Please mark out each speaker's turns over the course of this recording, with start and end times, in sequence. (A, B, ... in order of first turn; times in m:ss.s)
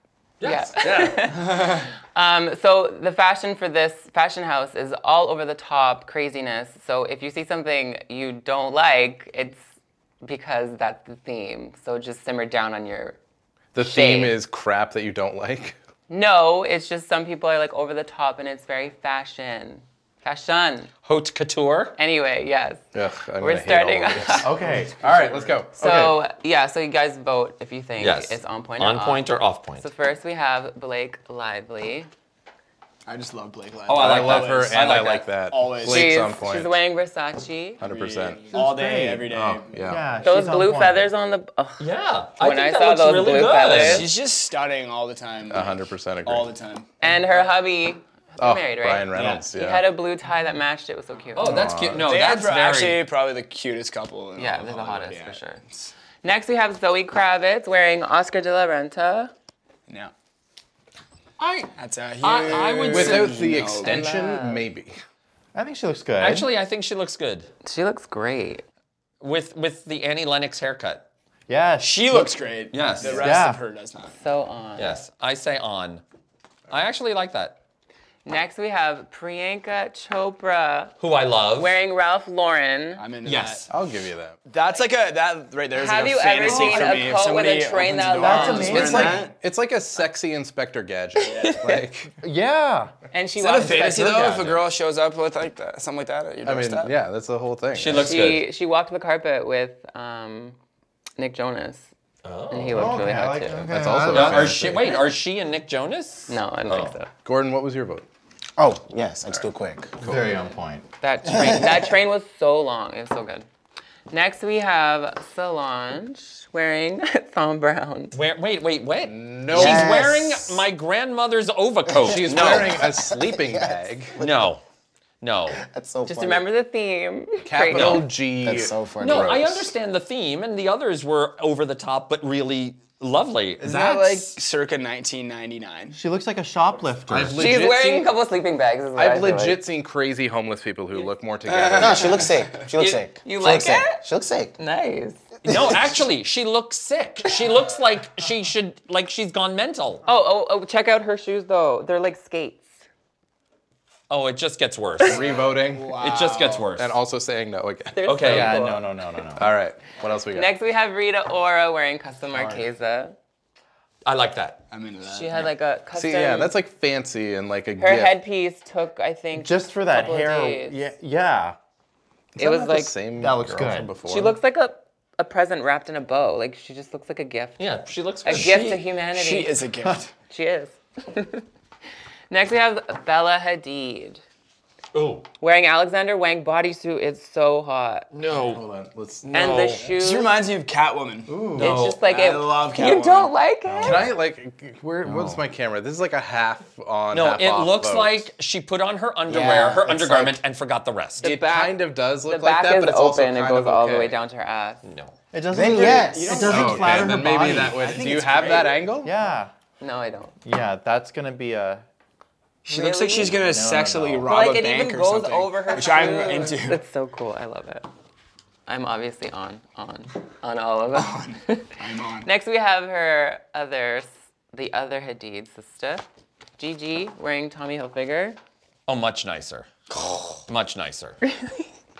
0:00.4-0:01.2 A
0:00.4-0:09.6 B
0:10.2-0:13.2 B
0:13.7-0:15.8 C
0:13.8-0:14.4 B
0:16.1-0:20.9 B
0:21.0-0:22.0 A
0:22.0-0:22.8 B
0:22.9-0:25.7 C
0:23.4-0:24.6 B
0:24.4-0:25.2 D
0:25.2-0:25.6 E
0:25.8-0:32.1 B
0:25.8-0:26.2 D
0:28.0-0:29.8 A
0:33.1-0:34.9 E
0:33.9-0:35.3 A
0:33.9-0:36.7 C
0:35.5-0:36.3 E
0:35.8-0:37.8 B
0:37.8-0:38.5 C
0:37.8-0:39.9 E
0:38.5-0:41.1 D
0:39.7-0:40.0 C
0:40.2-0:44.1 B
0:41.8-0:44.1 A
0:43.7-0:47.2 E
0:45.5-0:46.5 C
0:47.0-0:51.7 B
0:48.4-0:49.8 C
0:49.1-0:49.5 E
0:51.3-0:53.0 A
0:51.4-0:52.0 C
0:52.0-0:55.9 E
0:54.4-0:55.6 B
0:56.2-0:59.3 B
0:59.9-1:00.1 E
1:01.4-1:03.4 A
1:01.7-1:04.1 E
1:02.9-1:05.0 C
1:03.8-1:04.6 B
1:05.5-1:06.5 D
1:06.2-1:07.5 A
1:07.6-1:08.6 B
1:09.2-1:11.0 A
1:11.5-1:12.4 D
1:11.8-1:14.2 E
1:12.7-1:13.4 A
1:13.0-1:13.6 D
1:14.1-1:15.0 B
1:14.8-1:16.0 A
1:16.7-1:17.6 A
1:18.2-1:20.9 B
1:21.0-1:21.7 A
1:21.5-1:23.0 B
1:23.0-1:23.7 E
1:23.2-1:23.7 A
1:23.7-1:24.4 C
1:24.5-1:29.3 E
1:25.8-1:29.0 B
1:26.5-1:26.9 C
1:28.2-1:29.2 D
1:28.5-1:32.1 C
1:31.2-1:31.6 E
1:31.3-1:31.8 B
1:32.2-1:32.9 D
1:33.1-1:34.4 B
1:33.4-1:37.0 E
1:36.4-1:38.1 C
1:37.8-1:38.4 A
1:37.9-1:40.6 B
1:41.2-1:41.9 B
1:42.2-1:42.9 A
1:42.5-1:43.7 B
1:42.7-1:44.8 D
1:43.6-1:44.9 C
1:44.1-1:47.0 A
1:46.3-1:47.1 B
1:47.2-1:48.0 C
1:48.6-1:50.0 F
1:50.0-1:50.8 D
1:51.0-1:53.4 B
1:51.2-1:51.9 F
1:54.1-1:58.2 B
1:58.1-2:02.8 A
1:59.0-2:00.1 C
1:59.5-2:00.5 F
2:01.9-2:04.5 F
2:02.0-2:04.2 C
2:04.2-2:04.6 A
2:05.2-2:05.6 A
2:05.5-2:06.4 F
2:06.0-2:08.1 B
2:07.4-2:09.7 C
2:07.7-2:08.1 A
2:08.4-2:09.6 F
2:09.0-2:14.4 A
2:13.6-2:16.0 E
2:15.9-2:17.4 D
2:17.1-2:17.4 A
2:17.1-2:18.1 C
2:17.3-2:19.6 B
2:19.0-2:22.3 C
2:21.5-2:22.7 E
2:21.8-2:24.6 F
2:22.8-2:24.0 B
2:24.6-2:25.3 B
2:25.4-2:30.0 A
2:25.4-2:26.0 F
2:30.0-2:32.7 B
2:34.1-2:35.2 A
2:35.0-2:36.0 C
2:35.3-2:36.7 E
2:36.0-2:37.0 A
2:36.8-2:38.5 C
2:37.9-2:38.9 B
2:38.0-2:38.6 A
2:38.2-2:39.5 D
2:39.4-2:40.5 C
2:40.3-2:43.2 B
2:42.3-2:42.7 E
2:44.0-2:44.6 A
2:44.7-2:45.5 E
2:45.0-2:46.5 B
2:45.9-2:48.2 C
2:47.8-2:50.8 B
2:49.3-2:51.6 D
2:52.4-2:54.4 C
2:52.4-2:52.9 B
2:53.2-2:53.9 D
2:54.0-2:57.7 B
2:57.6-2:58.6 A
2:58.2-2:59.6 B
2:58.2-3:00.1 E
3:00.2-3:01.4 B
3:02.3-3:04.2 B
3:04.9-3:05.3 A
3:05.4-3:08.1 B
3:08.1-3:08.6 A
3:08.3-3:09.3 C
3:09.3-3:09.9 A
3:09.3-3:10.3 B
3:09.5-3:13.4 E
3:11.2-3:11.8 C
3:11.6-3:12.0 A
3:11.6-3:14.1 B
3:13.6-3:14.1 D
3:13.8-3:18.3 C
3:15.0-3:15.4 D
3:17.1-3:21.3 A
3:19.3-3:20.3 F
3:21.2-3:24.2 C
3:21.2-3:24.8 B
3:24.8-3:25.1 A
3:25.3-3:27.9 D
3:25.5-3:26.6 F
3:25.9-3:28.9 E
3:26.4-3:29.1 C
3:29.0-3:29.5 D
3:29.8-3:30.3 B
3:30.4-3:31.8 D
3:32.6-3:36.8 E
3:32.7-3:33.4 B
3:33.2-3:34.3 D
3:34.2-3:37.9 B
3:38.7-3:46.0 B
3:40.9-3:42.3 E
3:46.6-3:48.4 B
3:48.9-3:49.7 A
3:49.9-3:50.4 E
3:50.5-3:51.2 A
3:51.2-3:51.6 B